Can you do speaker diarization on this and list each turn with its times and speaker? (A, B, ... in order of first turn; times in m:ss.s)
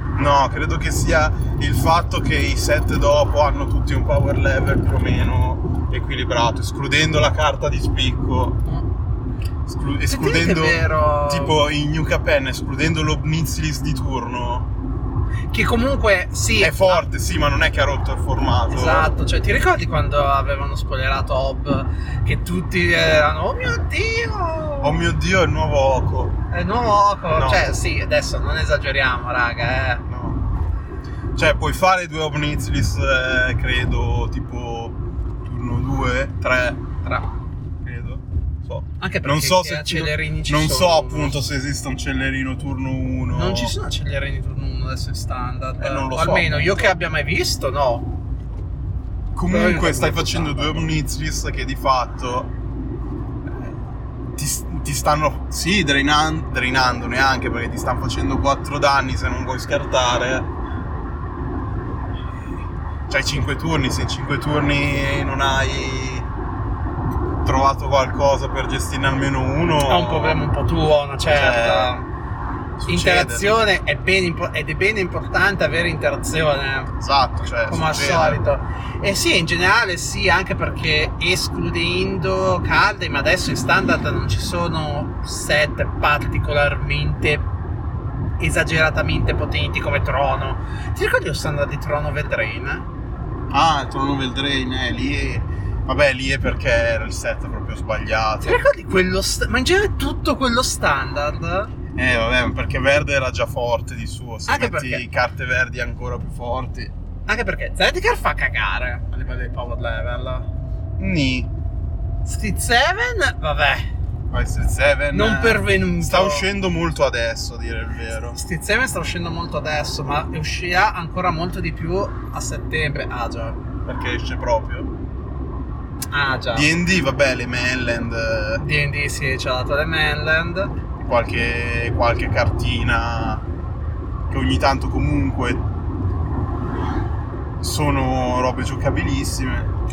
0:00.2-0:08.6 A
0:09.7-0:14.7 A
0:10.1-0:11.6 B
0:15.5-0:17.0 B
0:16.6-0:19.1 A
0:18.7-0:25.0 B
0:24.8-0:26.4 A
0:26.5-0:30.0 B
0:27.3-0:27.6 A
0:30.1-0:30.4 A
0:31.4-0:36.8 A
0:37.0-0:37.3 B
0:37.8-0:43.8 A
0:39.0-0:41.3 B
0:43.3-0:48.1 B
0:45.8-0:46.7 A
0:49.3-0:52.5 A
0:49.5-0:50.9 B
0:54.4-1:00.5 A
1:03.1-1:06.3 A
1:07.4-1:10.4 A
1:09.9-1:12.1 B
1:11.3-1:12.0 A
1:12.8-1:13.5 A
1:12.9-1:16.9 B
1:17.0-1:18.4 A
1:17.6-1:27.5 B
1:28.4-1:32.9 B
1:33.5-1:38.6 A
1:38.4-1:41.7 B
1:42.0-1:46.9 A
1:44.5-1:45.0 B
1:47.3-1:50.5 B
1:51.0-1:51.5 A
1:52.2-1:53.9 B
1:54.3-1:58.4 A
1:55.1-1:56.4 B
1:58.3-2:03.6 B
2:03.8-2:04.9 A
2:06.1-2:06.8 B
2:06.5-2:08.6 A
2:08.6-2:10.7 B
2:11.0-2:13.4 A
2:14.3-2:15.6 A
2:17.6-2:19.7 A